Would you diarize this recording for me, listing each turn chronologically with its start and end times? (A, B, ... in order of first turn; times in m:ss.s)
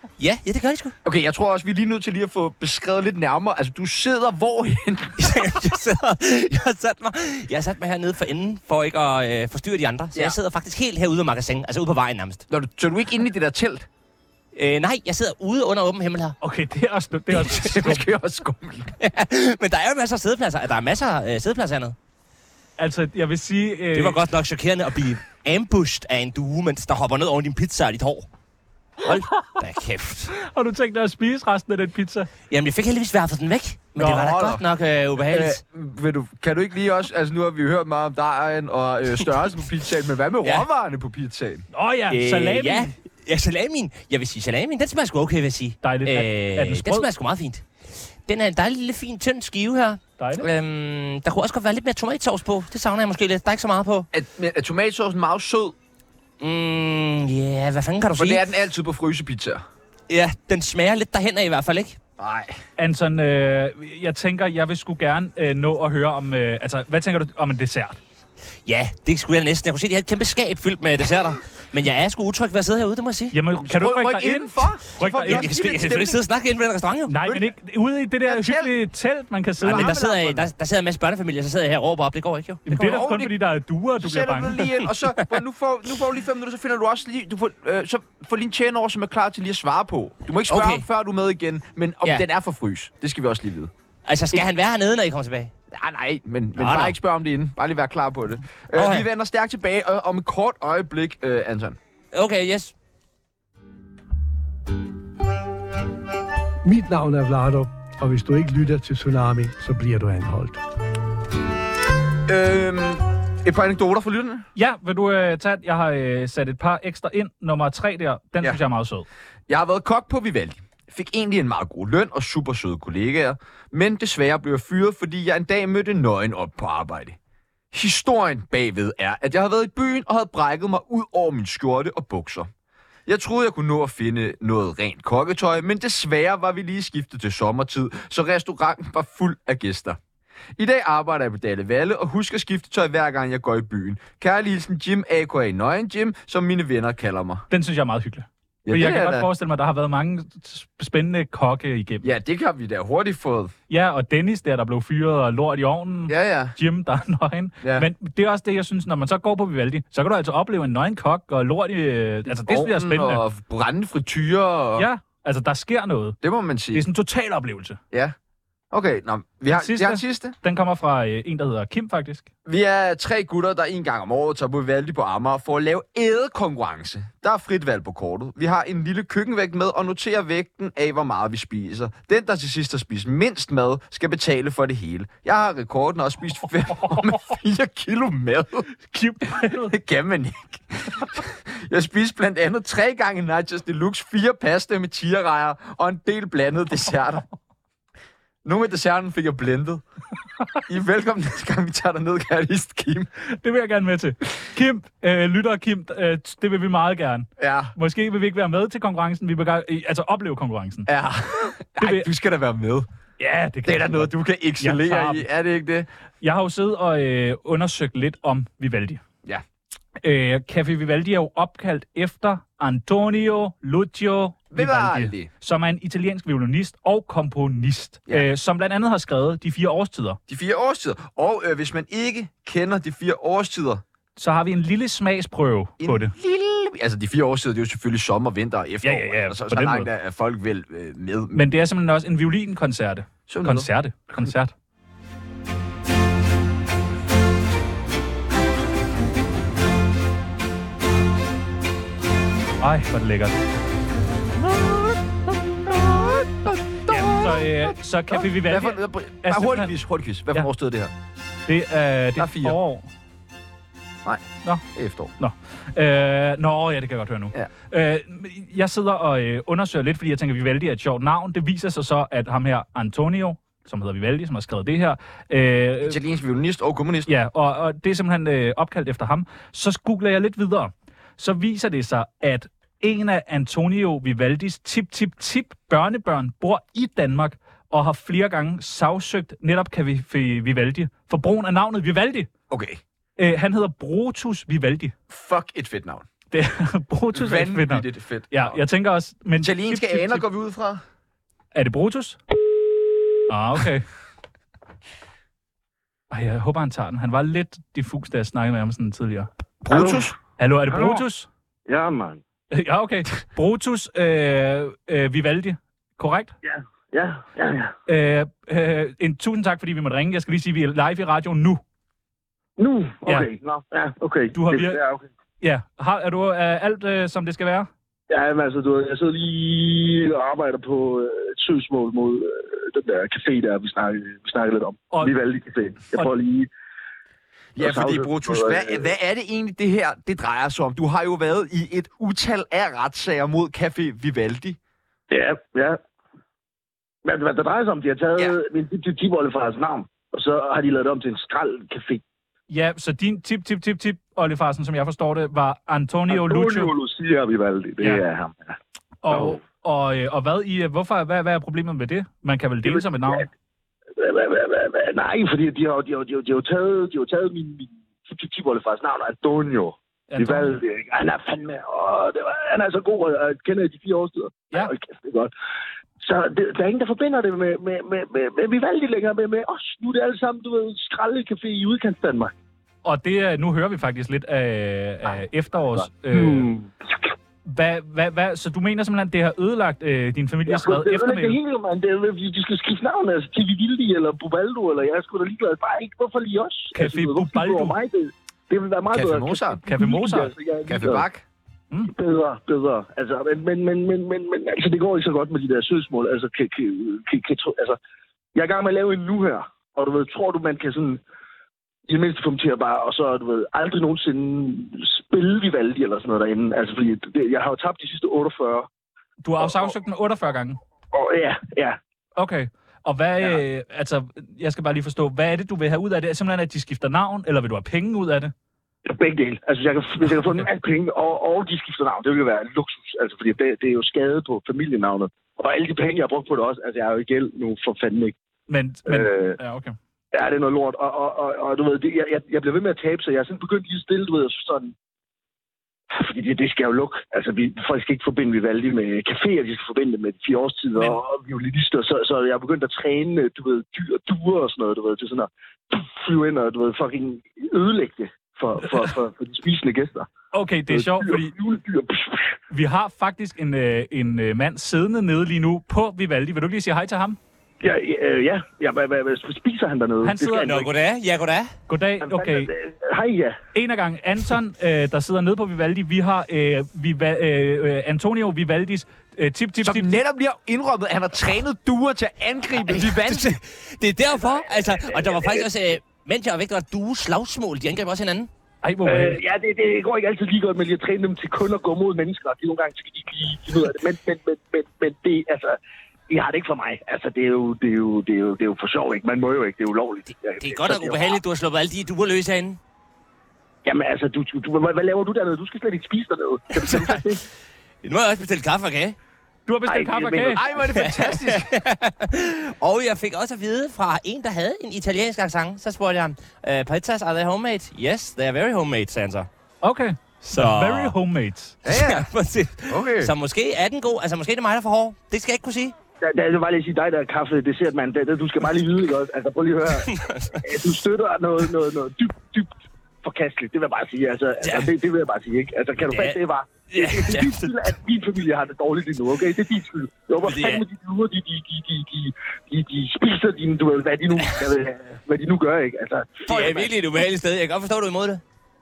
0:00.2-0:00.9 A
0:01.0-0:05.4 B
0:05.2-0:12.4 A
0:12.5-0:13.9 B
0:14.5-0:16.4 A
0:16.4-0:18.0 C
0:17.5-0:19.0 B
0:19.0-0:21.9 A
0:22.8-0:24.2 C
0:23.9-0:28.3 A
0:29.0-0:30.3 A
0:30.4-0:32.3 C
0:32.5-0:35.6 A
0:34.0-0:34.3 C
0:34.0-0:34.6 B
0:35.2-0:41.6 B
0:41.7-0:42.9 C
0:42.1-0:54.1 A
0:45.8-0:47.1 C
0:50.2-0:50.5 C
0:54.1-0:55.7 B
0:56.4-0:58.4 A
0:58.1-0:59.6 B
1:00.1-1:02.0 A
1:02.2-1:02.6 B
1:02.8-1:08.0 C
1:08.6-1:13.3 A
1:13.3-1:15.6 C
1:13.6-1:16.2 B
1:15.2-1:17.1 A
1:17.1-1:20.4 C
1:17.2-1:17.5 B
1:18.2-1:18.7 B
1:19.6-1:20.4 B
1:19.6-1:22.9 A
1:22.6-1:24.6 C
1:22.7-1:23.3 B
1:24.0-1:33.7 B
1:30.5-1:30.8 A
1:34.0-1:35.5 A
1:35.7-1:41.8 B
1:36.6-1:36.9 A
1:38.7-1:39.0 A
1:42.1-1:42.7 A
1:46.6-1:50.6 D
1:52.3-1:54.4 B
1:54.6-1:59.1 C
1:59.5-2:07.2 B
2:07.7-2:12.5 B
2:13.0-2:20.0 B
2:20.6-2:27.4 B
2:27.5-2:32.1 C
2:28.6-2:29.3 B
2:32.0-2:33.5 B
2:33.7-2:43.2 C
2:36.1-2:36.6 B
2:37.6-2:37.9 B
2:42.3-2:44.9 B
2:44.8-2:46.2 C
2:46.2-2:46.8 B
2:46.7-2:47.8 C
2:48.7-2:50.4 B
2:49.5-2:52.3 C
2:52.4-3:08.7 B
3:06.7-3:07.3 C
3:08.8-3:09.8 C
3:09.3-3:17.2 B
3:18.4-3:19.8 B
3:20.7-3:23.1 B
3:23.2-3:30.9 C
3:27.4-3:27.7 B
3:30.8-3:32.9 B
3:31.8-3:32.1 C
3:33.2-3:35.2 C
3:33.6-3:35.9 B
3:36.2-3:39.0 C
3:40.0-3:50.2 C
3:44.5-3:45.3 B
3:50.3-3:53.8 B
3:54.2-3:56.1 C
3:55.8-4:01.4 B
3:58.8-3:59.9 C
4:01.3-4:04.5 C
4:03.3-4:04.3 B
4:12.6-4:13.4 C
4:14.4-4:20.9 B
4:16.9-4:19.7 C
4:21.5-4:22.9 C
4:22.2-4:22.6 B
4:24.0-4:25.1 B
4:25.2-4:36.0 C
4:35.8-4:37.1 B
4:37.1-4:52.3 C
4:52.5-4:52.8 B
4:53.2-4:54.9 C
4:55.1-4:56.0 B
4:56.3-5:00.2 C
4:57.1-4:58.6 B
4:59.4-5:00.8 B
5:01.5-5:02.2 C
5:03.3-5:03.9 C
5:06.1-5:09.3 C
5:09.6-5:10.2 B
5:09.7-5:10.1 E
5:10.4-5:11.3 C
5:10.7-5:11.0 E
5:11.7-5:12.2 E
5:12.5-5:16.4 C
5:16.4-5:17.7 E
5:17.9-5:21.6 C
5:22.6-5:25.1 E
5:24.3-5:24.8 C
5:25.4-5:27.7 C
5:28.1-5:36.5 E
5:37.6-5:44.6 B
5:37.6-5:38.9 E
5:45.1-5:45.8 E
5:47.0-5:52.0 E
5:52.5-5:56.7 C
5:56.1-5:58.6 E
5:59.0-6:03.3 C
5:59.1-5:59.4 E
6:02.6-6:03.3 E
6:04.0-6:15.3 E
6:10.1-6:10.6 C
6:16.0-6:22.3 E
6:22.8-6:26.5 C
6:25.7-6:26.7 E
6:27.4-6:31.4 C
6:30.5-6:41.0 E
6:36.7-6:37.7 C
6:38.9-6:39.6 B
6:39.6-6:40.3 C
6:40.7-6:41.2 B
6:41.9-6:47.8 E
6:48.3-6:51.0 E
6:51.9-6:58.7 E
6:59.2-7:00.6 C
6:59.4-6:59.8 E
7:00.9-7:01.8 E
7:02.2-7:08.3 C
7:08.8-7:18.2 E
7:10.0-7:10.5 C
7:18.5-7:19.7 C
7:18.8-7:19.4 E
7:20.1-7:24.7 E
7:25.9-7:40.1 E
7:40.3-7:41.3 C
7:40.7-7:42.3 E
7:42.5-7:47.2 C
7:47.6-7:50.7 E
7:50.0-7:50.6 C
7:50.4-7:51.5 A
7:51.7-7:52.5 C
7:52.0-7:53.4 E
7:53.5-8:00.0 C
7:59.6-8:03.3 B
8:02.6-8:08.3 A
8:04.1-8:05.5 E
8:08.6-8:09.2 C
8:08.8-8:15.6 E
8:16.1-8:21.2 E
8:20.4-8:22.6 A
8:23.6-8:27.2 E
8:26.6-8:27.0 A
8:27.8-8:29.0 A
8:29.5-8:30.4 C
8:29.6-8:30.5 E
8:30.3-8:31.5 B
8:30.7-8:39.3 A
8:39.6-8:41.6 C
8:40.3-8:40.9 A
8:41.6-8:42.1 B
8:41.6-8:45.7 A
8:42.7-8:43.1 B
8:46.0-9:06.7 E
8:49.8-8:50.4 A
8:54.4-8:54.7 A
8:55.8-8:56.2 A
8:56.7-8:57.8 A
9:00.2-9:00.6 A
9:06.2-9:08.2 A